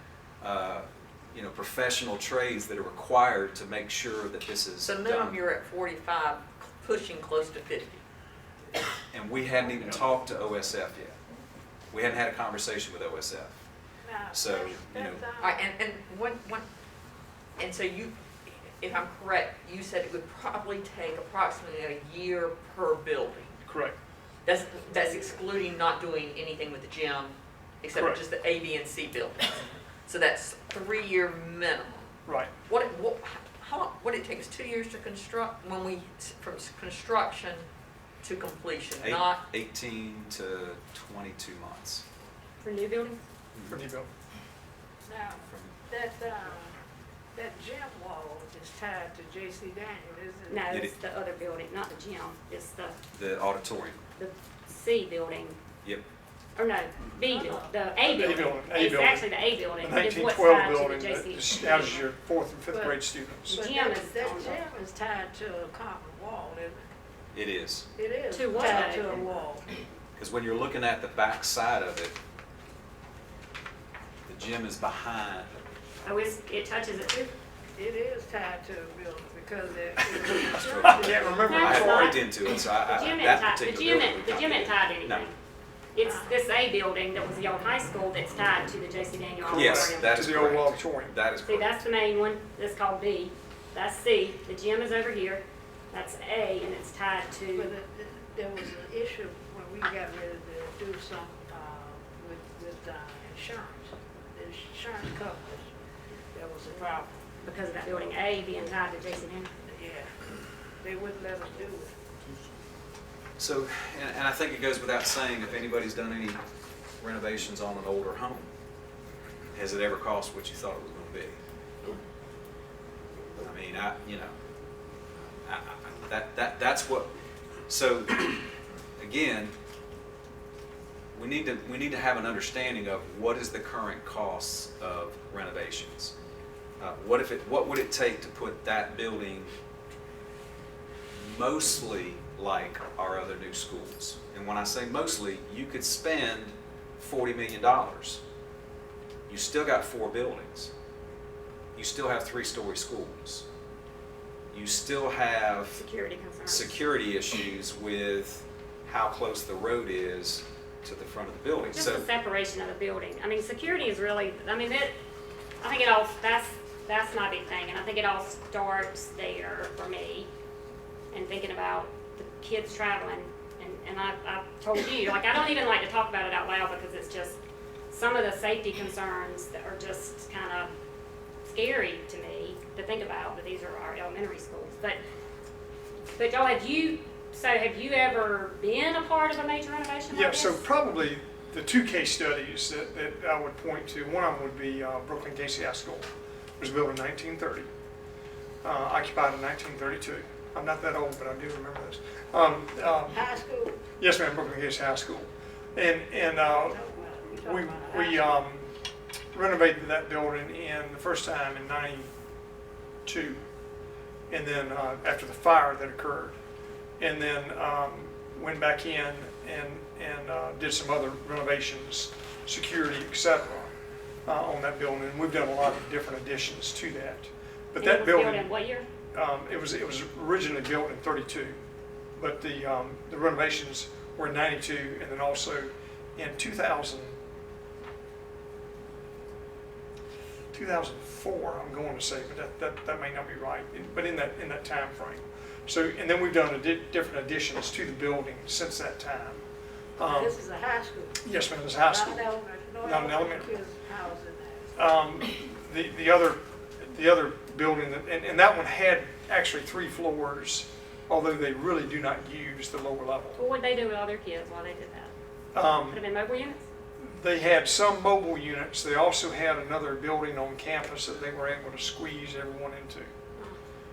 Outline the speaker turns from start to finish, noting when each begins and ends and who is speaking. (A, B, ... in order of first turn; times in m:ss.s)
0:00.4-0:05.4 A
0:04.8-0:08.0 B
0:09.1-0:11.2 A
0:11.9-0:13.6 A
0:14.0-0:15.7 C
0:14.3-0:15.2 A
0:15.4-0:16.7 B
0:17.6-0:23.6 B
0:23.7-0:24.0 D
0:24.4-0:32.1 B
0:27.9-0:28.2 D
0:32.3-0:32.5 D
0:32.7-0:37.7 B
0:38.2-0:39.4 B
0:39.0-0:42.0 A
0:42.6-0:43.2 E
0:43.7-0:44.1 D
0:45.1-0:46.8 C
0:45.4-0:45.8 A
0:47.3-0:50.7 C
0:50.5-0:53.0 E
0:53.1-0:54.0 A
0:54.2-0:55.6 E
0:56.6-1:02.0 E
0:57.1-0:58.3 C
0:58.1-0:59.3 D
0:59.8-1:03.6 D
1:02.7-1:06.9 C
1:03.5-1:04.6 E
1:07.3-1:07.9 A
1:08.0-1:09.7 C
1:08.3-1:09.3 E
1:08.6-1:08.9 A
1:10.2-1:12.2 A
1:14.3-1:15.6 A
1:16.0-1:17.3 E
1:17.8-1:21.7 C
1:20.5-1:22.2 D
1:20.5-1:25.3 A
1:21.4-1:25.3 E
1:26.0-1:30.2 E
1:26.0-1:26.4 C
1:29.4-1:31.1 D
1:29.5-1:31.9 A
1:31.4-1:37.8 E
1:37.5-1:45.7 C
1:46.3-1:47.1 C
1:47.4-1:49.5 E
1:49.7-1:50.1 C
1:50.8-1:51.9 C
1:53.4-1:56.4 A
1:57.0-1:58.5 A
1:59.5-2:01.4 A
2:03.4-2:04.4 A
2:05.4-2:07.1 A
2:07.7-2:08.4 A
2:09.0-2:09.5 A
2:11.1-2:16.1 A
2:16.8-2:19.6 A
2:21.1-2:28.2 A
2:29.3-2:30.7 A
2:31.8-2:33.5 A
2:34.5-2:35.8 A
2:35.7-2:36.8 E
2:36.5-2:42.1 A
2:41.7-2:44.9 E
2:45.6-2:50.3 E
2:51.1-2:57.4 E
2:57.9-3:00.7 E
3:01.4-3:05.0 E
3:06.2-3:10.6 E
3:10.1-3:17.7 D
3:18.6-3:23.3 D
3:23.1-3:23.8 C
3:24.0-3:26.8 D
3:26.5-3:28.3 C
3:27.4-3:28.7 D
3:29.3-3:32.1 D
3:33.0-3:33.4 D
3:34.3-3:36.4 D
3:37.0-3:43.7 D
3:44.2-3:48.5 D
3:47.8-3:48.8 E
3:49.1-3:51.6 D
3:52.2-3:57.2 D
4:00.5-4:09.4 D
4:10.0-4:10.4 D
4:10.1-4:11.2 C
4:11.2-4:12.3 D
4:11.9-4:14.7 C
4:12.8-4:13.6 D
4:14.8-4:23.4 D
4:23.4-4:25.1 E
4:25.5-4:26.0 D
4:25.9-4:26.6 E
4:27.0-4:33.1 D